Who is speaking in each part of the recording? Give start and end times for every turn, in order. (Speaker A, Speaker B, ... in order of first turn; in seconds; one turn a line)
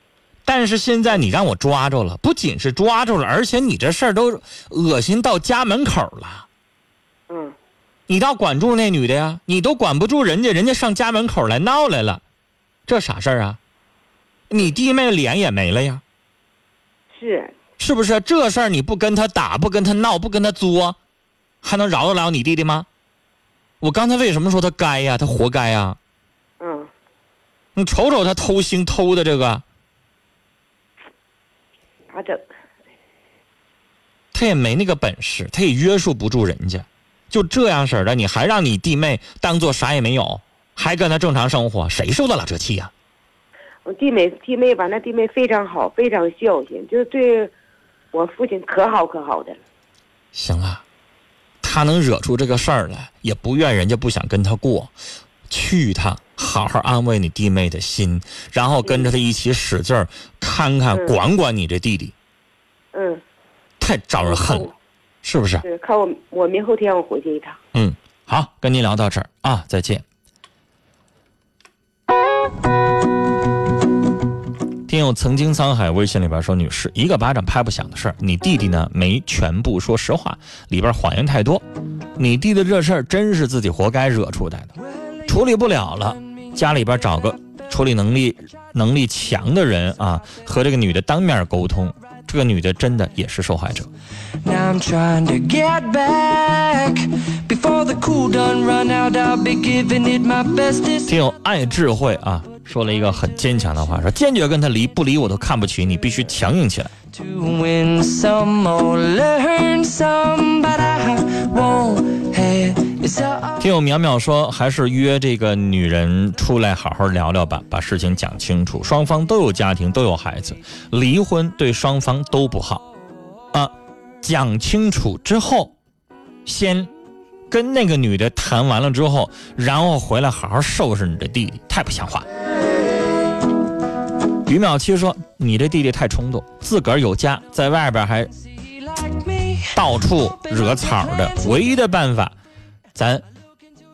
Speaker A: 0.5-6.5
Speaker B: 7.3-7.5
Speaker A: 8.1-12.2
Speaker A: 12.9-13.6
Speaker A: 14.5-16.0
Speaker B: 17.1-17.5
Speaker A: 17.8-21.0
Speaker A: 21.6-22.9
Speaker A: 23.8-26.0
Speaker B: 26.6-26.9
Speaker A: 27.8-29.6
Speaker B: 32.1-32.4
Speaker A: 34.3-42.9
Speaker B: 43.9-47.5
Speaker B: 48.1-49.6
Speaker A: 50.3-50.8
Speaker A: 51.6-54.9
Speaker A: 55.5-62.1
Speaker B: 58.8-59.1
Speaker B: 62.9-63.2
Speaker A: 63.8-64.7
Speaker B: 64.2-64.7
Speaker A: 65.2-65.6
Speaker B: 65.6-67.6
Speaker A: 67.7-70.0
Speaker A: 74.9-81.6
Speaker A: 82.2-84.7
Speaker A: 85.2-93.9
Speaker C: 94.4-101.1
Speaker A: 101.0-106.9
Speaker C: 107.1-113.6
Speaker A: 113.6-122.8
Speaker A: 123.5-125.7
Speaker A: 126.5-126.9
Speaker A: 127.5-132.3
Speaker A: 134.4-138.3
Speaker C: 138.9-139.6
Speaker A: 139.6-142.3
Speaker A: 142.9-143.2